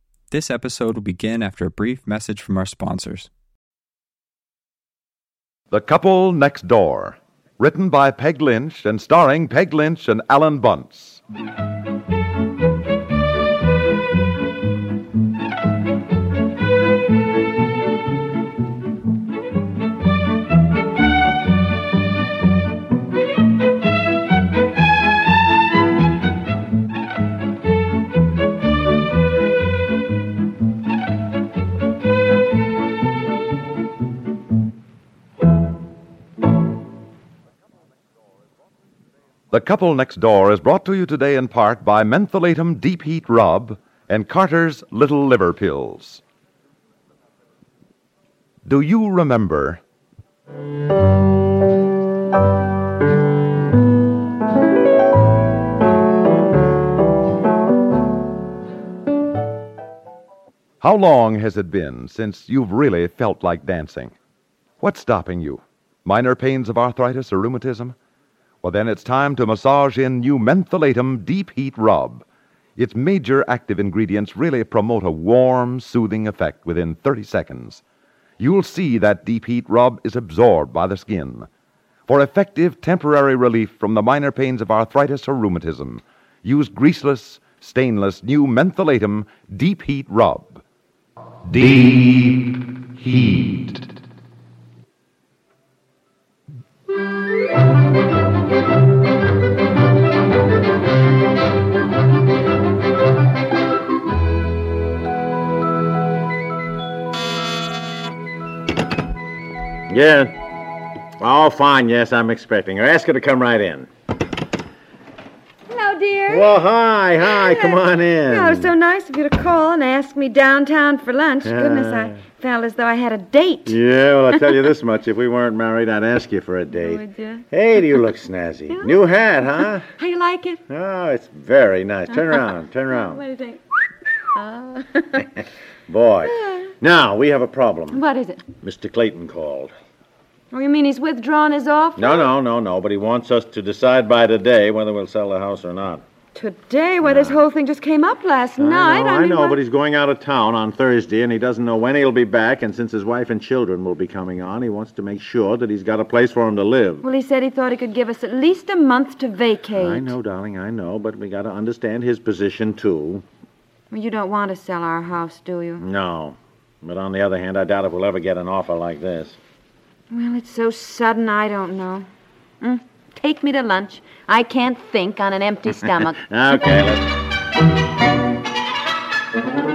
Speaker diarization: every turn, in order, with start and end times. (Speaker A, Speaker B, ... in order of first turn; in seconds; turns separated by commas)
Speaker A: 0.3-3.3, Speaker B: 5.7-11.2, Speaker B: 39.5-46.2, Speaker B: 48.6-49.8, Speaker B: 60.8-64.1, Speaker B: 64.8-68.0, Speaker B: 68.6-72.2, Speaker B: 72.8-77.8, Speaker B: 78.4-81.5, Speaker B: 82.1-90.6, Speaker B: 91.4-93.8, Speaker C: 109.9-110.3, Speaker C: 111.2-113.9, Speaker D: 115.7-116.5, Speaker C: 116.3-118.7, Speaker D: 117.2-123.8, Speaker C: 121.4-122.2, Speaker C: 123.7-129.8, Speaker D: 126.7-127.4, Speaker D: 130.0-130.6, Speaker C: 130.7-133.2, Speaker D: 132.9-133.6, Speaker D: 134.3-135.3, Speaker C: 135.9-138.0, Speaker D: 136.2-136.7, Speaker D: 137.9-138.4, Speaker C: 138.6-139.7, Speaker D: 140.5-142.3, Speaker C: 142.0-146.0, Speaker D: 146.3-149.6, Speaker C: 147.0-147.4, Speaker C: 148.6-157.0, Speaker D: 157.0-160.1, Speaker C: 159.8-163.2, Speaker D: 163.9-165.8, Speaker C: 165.8-169.4, Speaker D: 170.1-172.1, Speaker D: 172.6-176.2, Speaker C: 176.3-177.0